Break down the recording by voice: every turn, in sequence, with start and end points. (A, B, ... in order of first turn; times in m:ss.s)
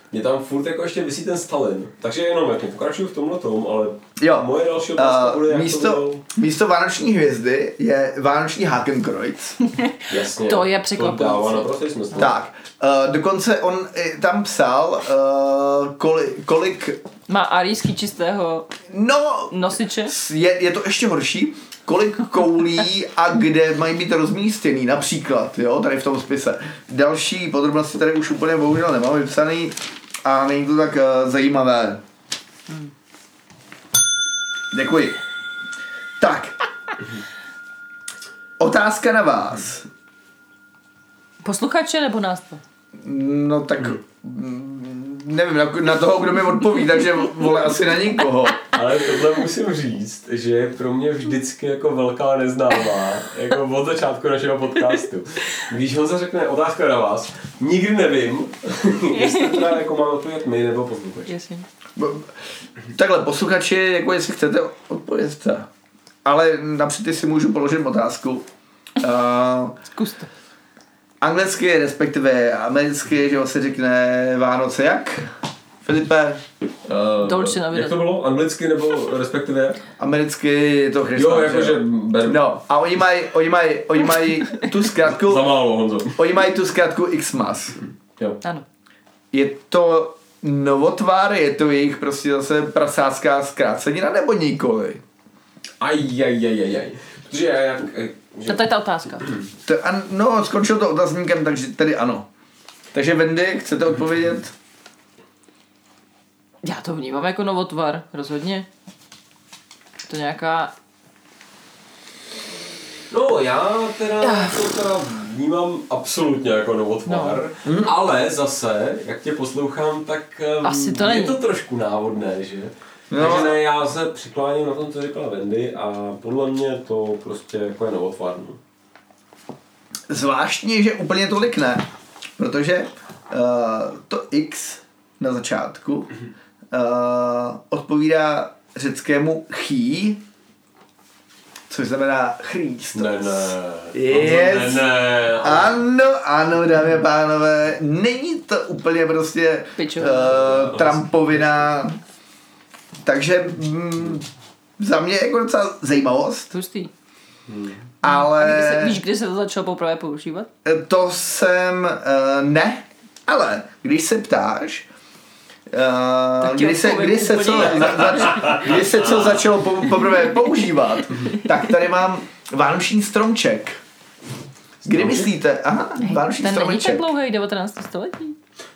0:00.1-0:06.2 A
0:04.2-0:09.6 B
0:09.8-0:11.7 C
0:10.1-0:12.3 A
0:12.1-0:17.0 B
0:17.3-0:18.7 C
0:18.9-0:32.0 B
0:19.5-0:20.1 C
0:34.7-0:35.2 B
0:36.2-0:36.6 B
0:38.6-0:39.9 B
0:41.4-0:42.6 C
0:43.0-0:48.6 B
0:48.7-1:01.3 A
0:59.1-0:59.8 C
1:01.3-1:01.6 C
1:02.0-1:02.3 B
1:02.9-1:05.7 B
1:06.2-1:08.4 B
1:09.0-1:09.8 B
1:10.0-1:10.3 C
1:11.2-1:15.3 B
1:15.8-1:16.4 B
1:16.8-1:19.8 A
1:17.2-1:18.0 C
1:20.0-1:25.4 B
1:21.1-1:22.5 A
1:25.0-1:26.2 A
1:26.1-1:27.8 B
1:29.3-1:35.0 B
1:35.8-1:39.4 A
1:38.4-1:39.3 C
1:39.6-1:42.3 B
1:42.9-1:44.5 B
1:46.6-1:48.7 C
1:50.1-1:50.7 C
1:53.1-2:08.6 A
1:54.2-1:54.6 C
1:57.0-1:57.4 C
1:57.6-1:57.9 B
2:00.6-2:01.4 C
2:03.1-2:03.6 B
2:10.1-2:11.8 B
2:12.4-2:16.1 B
2:16.7-2:20.2 B
2:21.7-2:24.9 B
2:22.9-2:25.8 A
2:25.4-2:32.0 B
2:29.8-2:30.3 C
2:30.2-2:31.7 A
2:33.0-2:34.3 B
2:34.8-2:36.5 B
2:36.5-2:36.9 C
2:37.5-2:37.8 A
2:38.0-2:39.0 B
2:38.0-2:40.5 C
2:40.6-2:44.8 B
2:45.7-2:53.8 B
2:46.4-2:48.7 C
2:47.6-2:49.4 A
2:54.8-2:55.3 A
2:54.8-2:57.0 B
2:56.0-2:58.4 C